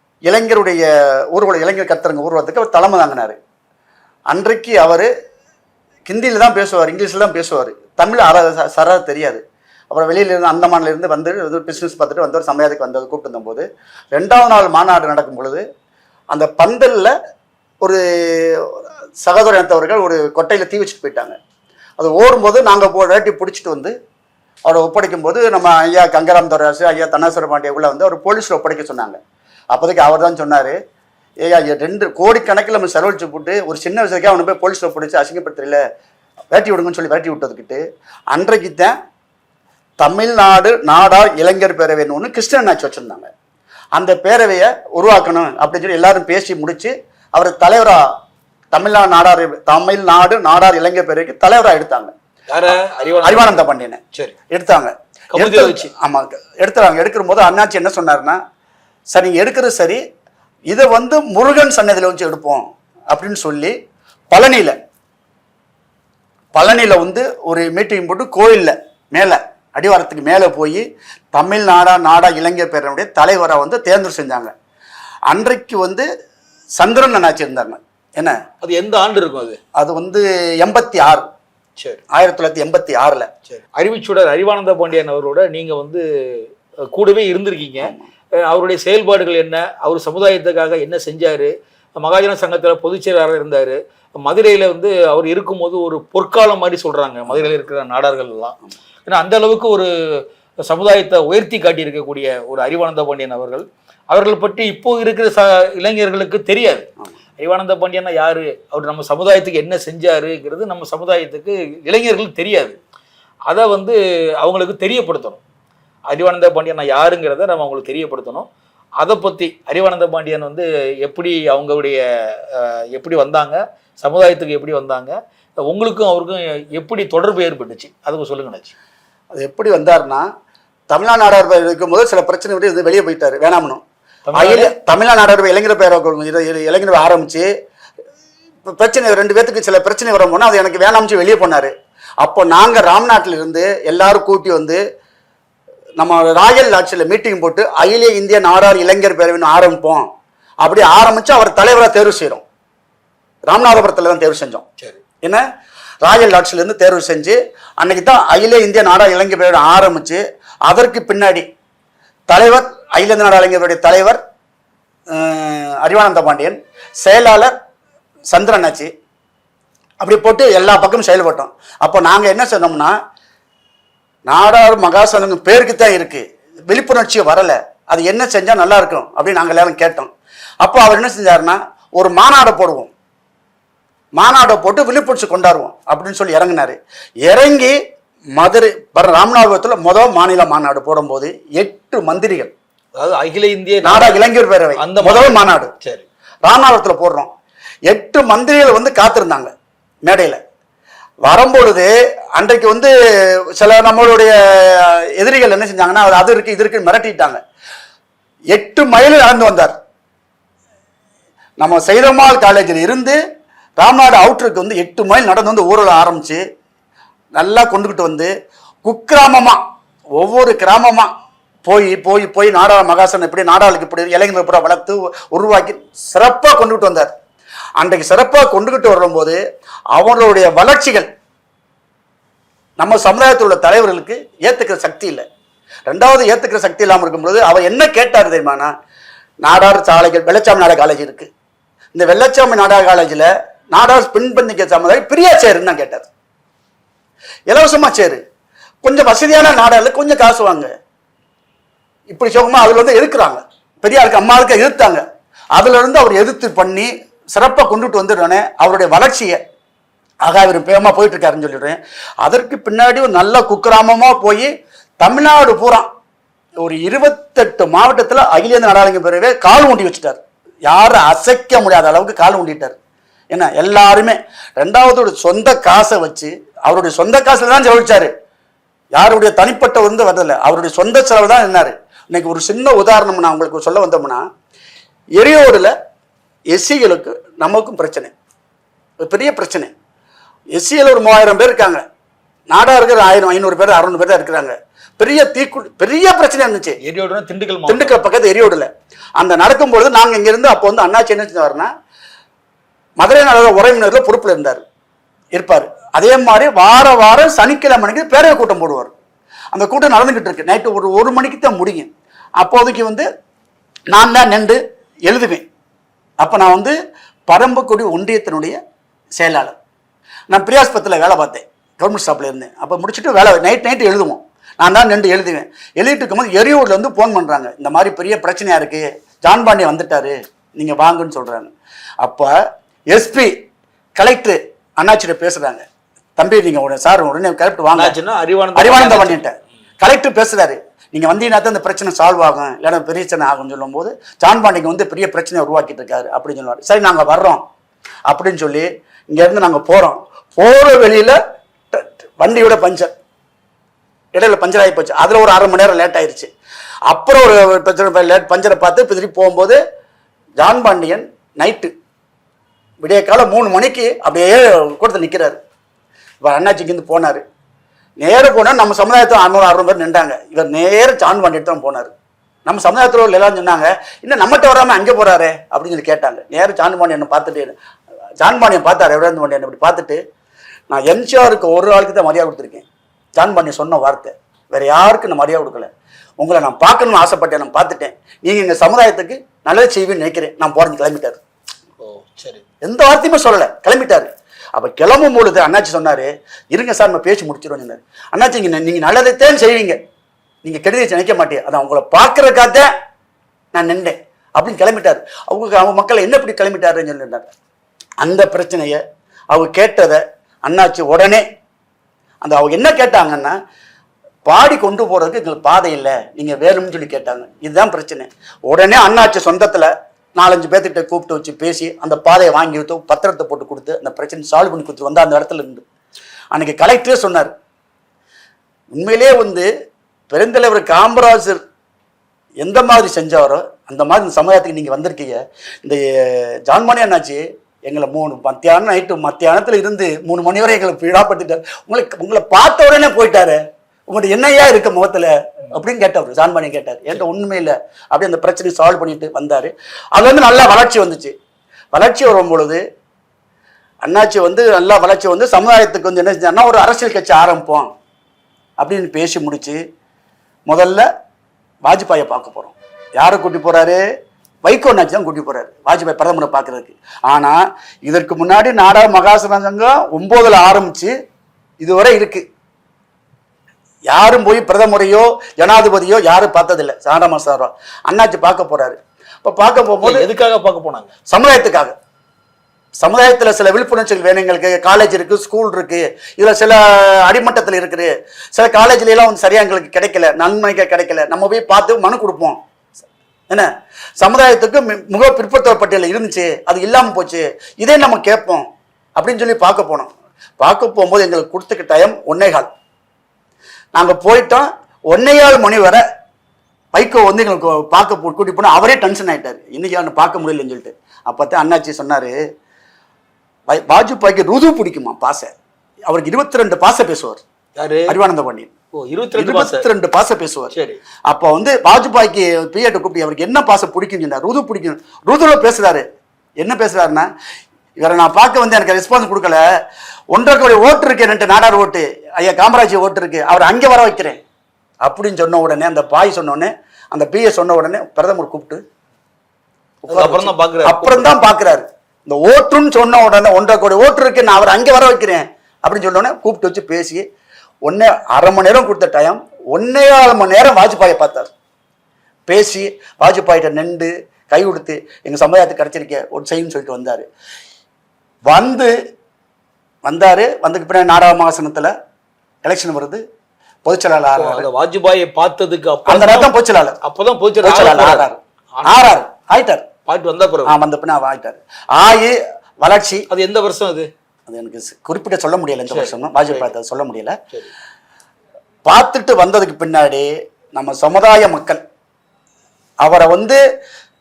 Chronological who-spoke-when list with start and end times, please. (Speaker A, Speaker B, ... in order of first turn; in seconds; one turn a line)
Speaker A: 0.3-3.4
Speaker A: 4.3-5.1
Speaker A: 6.1-15.6
Speaker A: 16.3-17.1
Speaker A: 17.8-21.4
Speaker A: 22.0-23.9
Speaker A: 24.7-29.2
Speaker A: 29.7-30.8
Speaker A: 31.4-35.8
Speaker A: 36.5-37.8
Speaker A: 38.3-39.0
Speaker A: 40.0-43.3
Speaker A: 44.0-48.1
Speaker A: 48.7-52.1
Speaker B: 52.5-53.5
Speaker A: 53.2-58.4
Speaker B: 55.3-55.9
Speaker A: 59.1-60.0
Speaker A: 60.7-63.8
Speaker A: 64.3-64.8
Speaker A: 66.5-74.5
Speaker A: 75.3-76.1
Speaker A: 76.8-78.4
Speaker B: 78.6-79.6
Speaker A: 79.8-81.3
Speaker A: 82.1-83.3
Speaker B: 83.5-86.4
Speaker B: 86.9-99.9
Speaker A: 87.8-88.1
Speaker B: 100.7-106.9
Speaker B: 107.4-112.8
Speaker B: 113.5-115.4
Speaker B: 116.1-128.7
Speaker A: 129.3-130.3
Speaker A: 130.9-133.8
Speaker B: 134.3-134.7
Speaker A: 134.4-137.5
Speaker A: 138.7-144.8
Speaker A: 146.0-150.1
Speaker A: 150.6-152.4
Speaker A: 153.5-154.7
Speaker A: 156.0-161.5
Speaker A: 162.3-164.2
Speaker A: 165.1-167.6
Speaker A: 168.3-168.9
Speaker A: 170.0-173.0
Speaker A: 174.3-180.1
Speaker A: 180.6-182.9
Speaker A: 184.2-187.8
Speaker A: 188.4-192.5
Speaker B: 193.0-194.2
Speaker A: 193.8-195.7
Speaker B: 194.8-196.1
Speaker A: 196.5-197.3
Speaker A: 197.9-199.5
Speaker A: 200.1-200.4
Speaker A: 201.2-202.9
Speaker A: 203.6-207.4
Speaker A: 208.5-209.8
Speaker A: 211.6-213.2
Speaker A: 213.8-216.4
Speaker A: 217.4-218.3
Speaker A: 218.8-219.6
Speaker A: 220.2-221.1
Speaker A: 221.7-227.1
Speaker A: 227.8-229.4
Speaker A: 229.9-231.1
Speaker A: 232.8-235.2
Speaker A: 235.9-238.7
Speaker A: 239.4-241.3
Speaker A: 241.9-246.1
Speaker A: 247.5-248.2
Speaker A: 248.8-250.7
Speaker A: 252.1-255.0
Speaker A: 255.6-259.4
Speaker A: 260.2-264.5
Speaker A: 265.0-265.9
Speaker A: 266.6-272.8
Speaker A: 273.3-278.1
Speaker A: 278.9-284.3
Speaker A: 285.2-285.7
Speaker A: 286.5-288.1
Speaker A: 289.0-289.7
Speaker A: 290.6-291.8
Speaker A: 292.5-296.8
Speaker B: 296.8-298.0
Speaker A: 297.7-301.7
Speaker A: 303.0-304.6
Speaker A: 305.4-308.9
Speaker A: 309.5-313.1
Speaker A: 313.9-315.5
Speaker A: 316.2-316.8
Speaker A: 317.3-318.6
Speaker A: 319.2-319.6
Speaker A: 320.3-332.3
Speaker A: 332.9-333.3
Speaker A: 334.0-335.6
Speaker A: 336.2-338.0
Speaker B: 337.8-339.2
Speaker A: 338.6-347.4
Speaker A: 348.1-351.2
Speaker A: 351.7-352.9
Speaker A: 354.1-356.3
Speaker A: 356.9-359.6
Speaker A: 360.4-361.7
Speaker A: 362.8-365.4
Speaker A: 366.2-367.2
Speaker A: 368.0-371.9
Speaker A: 372.5-377.6
Speaker A: 378.2-380.0
Speaker A: 380.7-382.7
Speaker A: 383.2-391.2
Speaker B: 391.8-392.4
Speaker A: 392.6-399.8
Speaker A: 400.4-402.7
Speaker A: 403.5-407.3
Speaker A: 408.0-408.8
Speaker A: 409.3-411.2
Speaker A: 412.2-413.4
Speaker A: 414.3-425.6
Speaker A: 426.3-427.3
Speaker A: 428.7-429.5
Speaker A: 430.1-431.4
Speaker A: 432.4-451.1
Speaker A: 451.7-452.6
Speaker A: 453.8-457.7
Speaker A: 458.6-459.6
Speaker A: 460.5-460.9
Speaker A: 461.7-463.8
Speaker A: 464.4-470.9
Speaker A: 471.6-472.2
Speaker A: 473.9-480.1
Speaker B: 479.8-480.9
Speaker A: 481.1-481.8
Speaker A: 482.8-492.4
Speaker A: 493.3-498.5
Speaker A: 499.0-502.5
Speaker A: 503.8-505.8
Speaker A: 506.7-512.1
Speaker A: 513.5-515.3
Speaker A: 515.9-517.2
Speaker B: 517.6-518.0
Speaker A: 517.9-518.5
Speaker B: 518.7-519.7
Speaker A: 519.2-520.5
Speaker B: 520.5-520.8
Speaker A: 521.1-525.9
Speaker A: 526.4-527.1
Speaker A: 527.8-529.4
Speaker A: 530.1-534.2
Speaker A: 534.8-538.6
Speaker A: 539.8-547.0
Speaker B: 539.9-541.1
Speaker A: 547.7-551.3
Speaker A: 552.3-557.1
Speaker A: 558.3-558.7
Speaker A: 559.9-561.7
Speaker A: 562.4-563.0
Speaker A: 563.6-564.5
Speaker B: 564.2-568.9
Speaker A: 565.9-566.8
Speaker A: 567.4-569.7
Speaker B: 569.9-570.5
Speaker A: 570.5-573.1
Speaker B: 573.1-573.9
Speaker A: 574.3-577.2
Speaker B: 575.7-576.5
Speaker A: 578.7-581.6
Speaker A: 582.8-583.4